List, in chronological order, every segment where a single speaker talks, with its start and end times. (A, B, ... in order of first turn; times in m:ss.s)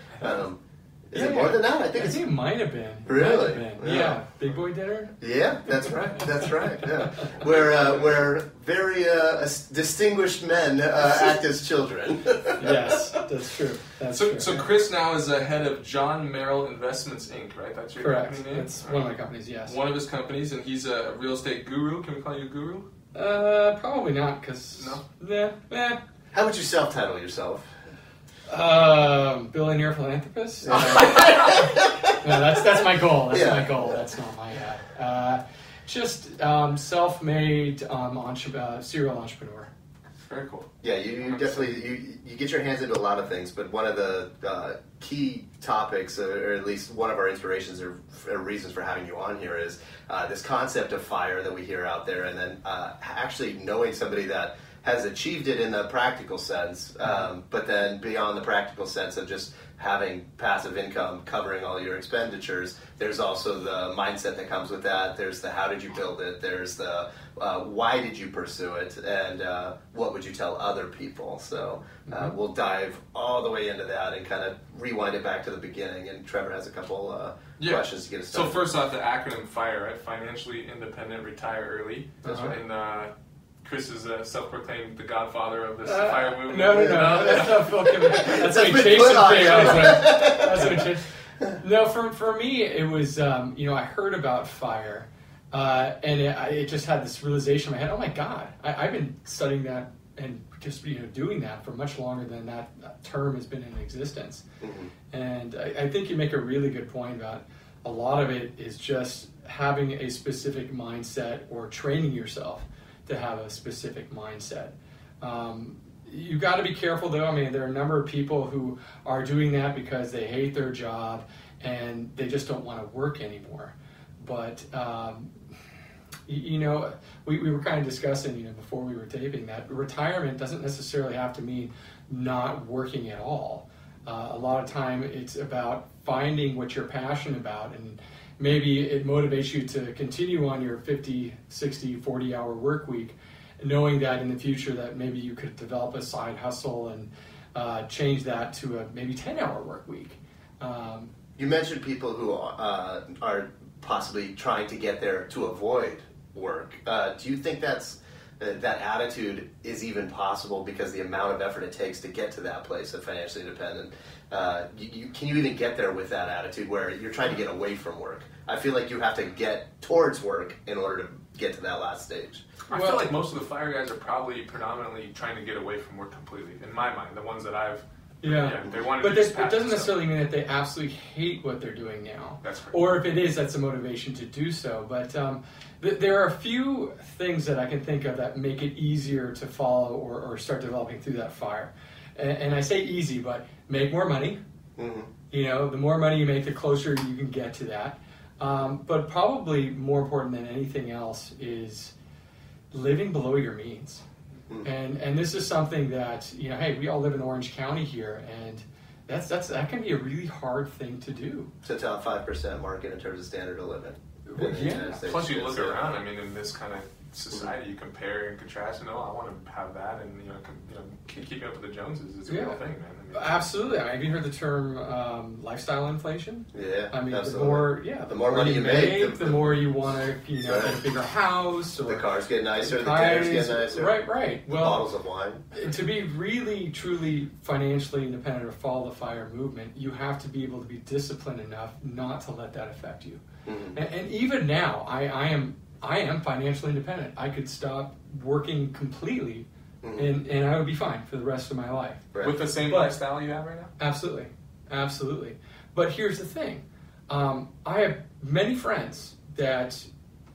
0:00.2-0:02.2 A
0:01.1-0:05.1 B
0:03.0-0:04.2 A
0:05.2-0:12.9 A
0:12.6-0:14.7 B
0:14.1-0:22.9 C
0:18.0-0:19.7 B
0:23.1-0:26.0 B
0:24.8-0:25.0 C
0:26.3-0:27.7 A
0:28.5-0:39.7 B
0:30.6-0:32.7 A
0:33.3-0:34.0 A
0:40.2-0:40.7 C
0:40.8-1:18.6 A
0:41.2-0:41.7 C
1:12.1-1:12.4 B
1:17.6-1:23.1 C
1:22.2-1:22.5 B
1:23.6-1:28.2 C
1:25.8-1:44.4 B
1:26.7-1:30.9 A
1:29.4-1:29.9 C
1:44.6-1:44.9 A
1:45.1-2:05.4 B
2:06.2-2:31.1 B
2:31.4-2:52.4 A
2:52.7-3:00.1 C
2:52.7-2:53.1 B
2:58.2-3:14.4 B
3:02.4-3:03.0 C
3:14.8-3:15.1 A
3:15.3-3:21.9 B
3:22.7-3:24.0 B
3:24.6-3:31.5 B
3:31.6-3:35.8 A
3:34.3-3:35.0 B
3:34.7-3:43.5 C
3:42.3-3:42.6 B
3:43.1-3:52.0 B
3:46.5-3:49.6 A
3:50.4-3:50.8 A
3:51.8-3:55.4 A
3:52.6-3:54.8 B
3:55.5-4:03.2 B
4:03.4-4:03.8 A
4:03.7-4:12.1 B
4:09.8-4:10.1 A
4:12.2-4:13.7 C
4:12.6-4:12.9 B
4:13.8-4:19.9 B